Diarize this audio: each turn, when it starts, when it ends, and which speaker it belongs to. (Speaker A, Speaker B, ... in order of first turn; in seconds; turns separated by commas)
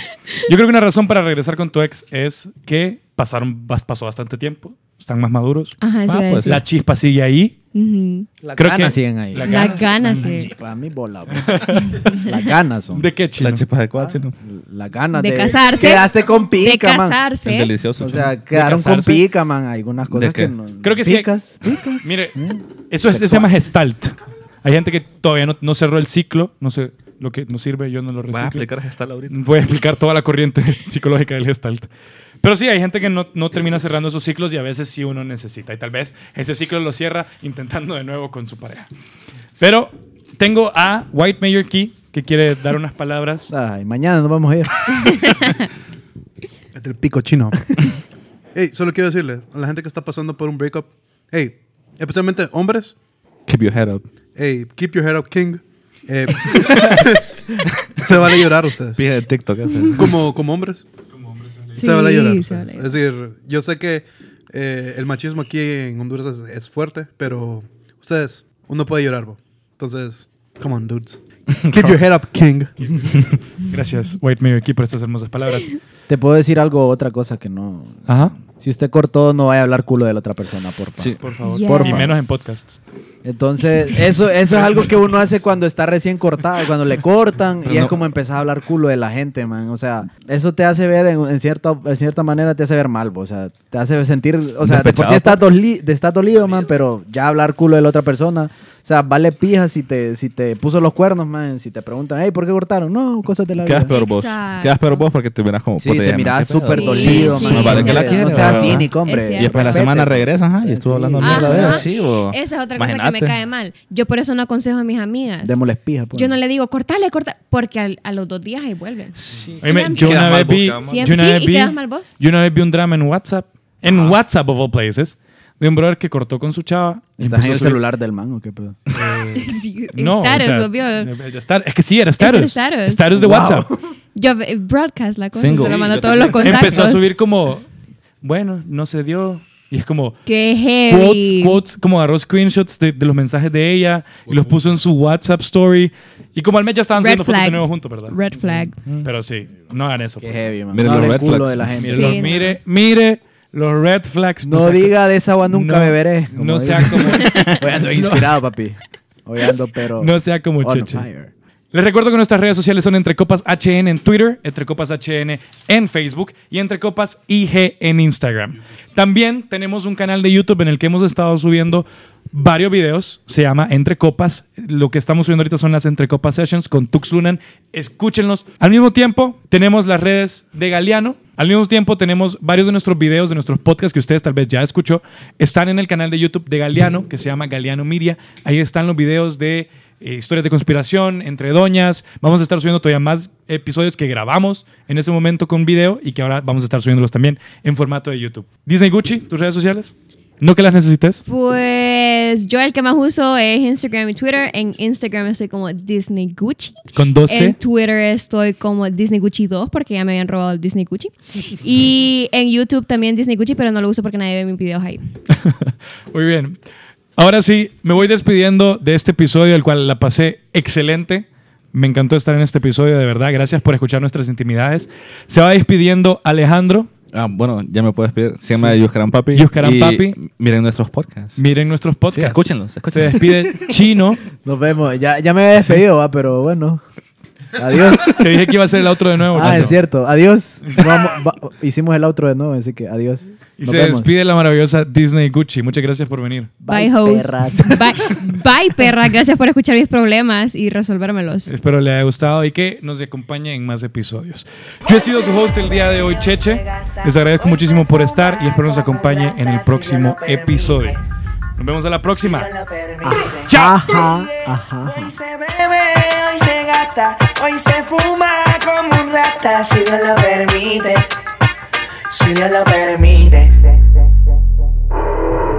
Speaker A: 0.4-7.5, Speaker B: 5.8-6.6, Speaker C: 6.1-6.6, Speaker B: 7.7-8.3, Speaker D: 8.4-13.1, Speaker A: 8.6-10.4, Speaker B: 9.4-10.5, Speaker A: 11.3-12.2, Speaker B: 11.9-12.3, Speaker A: 12.9-13.7, Speaker C: 13.4-14.3, Speaker D: 13.9-17.2, Speaker B: 15.1-17.7, Speaker C: 17.4-18.2, Speaker D: 18.0-23.5, Speaker A: 18.5-19.2, Speaker C: 20.1-20.5, Speaker A: 20.8-21.3, Speaker A: 22.0-22.4, Speaker A: 22.9-28.7, Speaker C: 28.3-29.4, Speaker A: 29.3-31.9, Speaker A: 32.4-38.9, Speaker A: 39.6-43.5, Speaker D: 43.5-45.3, Speaker B: 45.0-45.7, Speaker E: 46.7-47.7, Speaker E: 48.5-52.9, Speaker C: 53.5-54.0, Speaker E: 54.4-59.0, Speaker C: 56.5-57.0, Speaker C: 57.8-58.4, Speaker C: 59.0-60.2, Speaker E: 59.9-60.9, Speaker A: 61.3-61.8, Speaker E: 61.7-72.8, Speaker B: 61.8-62.9, Speaker C: 71.5-72.0, Speaker A: 72.8-75.8, Speaker D: 76.1-78.0, Speaker A: 78.1-78.4, Speaker D: 78.6-82.2, Speaker A: 81.2-82.8, Speaker B: 81.4-82.3, Speaker D: 83.2-103.9, Speaker C: 87.6-87.9, Speaker C: 94.6-95.4, Speaker C: 103.6-113.4, Speaker B: 103.9-105.1, Speaker D: 105.8-111.8, Speaker B: 106.6-109.8, Speaker A: 107.2-108.8, Speaker B: 111.2-115.6, Speaker D: 115.4-116.3, Speaker B: 116.1-122.1, Speaker C: 119.2-121.2, Speaker A: 119.6-127.8, Speaker D: 127.2-128.8, Speaker A: 128.9-133.7, Speaker B: 129.3-131.1, Speaker B: 132.2-133.2, Speaker D: 133.1-133.8, Speaker B: 134.1-137.1, Speaker C: 135.3-136.8, Speaker A: 135.5-135.8, Speaker A: 136.4-137.7, Speaker A: 138.2-140.2, Speaker B: 140.2-141.6, Speaker A: 140.9-151.1, Speaker B: 147.0-148.8, Speaker D: 150.2-152.3, Speaker C: 150.7-151.7, Speaker A: 151.8-158.3, Speaker B: 151.8-152.6, Speaker D: 154.4-161.3, Speaker B: 157.2-157.6, Speaker A: 160.0-161.1, Speaker A: 161.7-201.2, Speaker B: 201.2-215.0, Speaker A: 206.9-207.6, Speaker A: 215.3-216.6, Speaker A: 217.2-226.9, Speaker C: 227.1-231.4, Speaker A: 228.5-230.2, Speaker A: 231.4-234.2, Speaker C: 232.1-233.5, Speaker D: 234.4-236.8, Speaker D: 237.5-238.5, Speaker A: 238.0-239.8, Speaker D: 239.3-244.1, Speaker A: 243.6-246.5, Speaker D: 246.6-248.0, Speaker B: 246.7-251.5, Speaker A: 251.5-261.0, Speaker F: 254.8-261.0, Speaker A: 261.6-262.5, Speaker F: 262.1-271.1, Speaker D: 263.0-265.1, Speaker A: 263.5-263.9, Speaker F: 272.1-274.0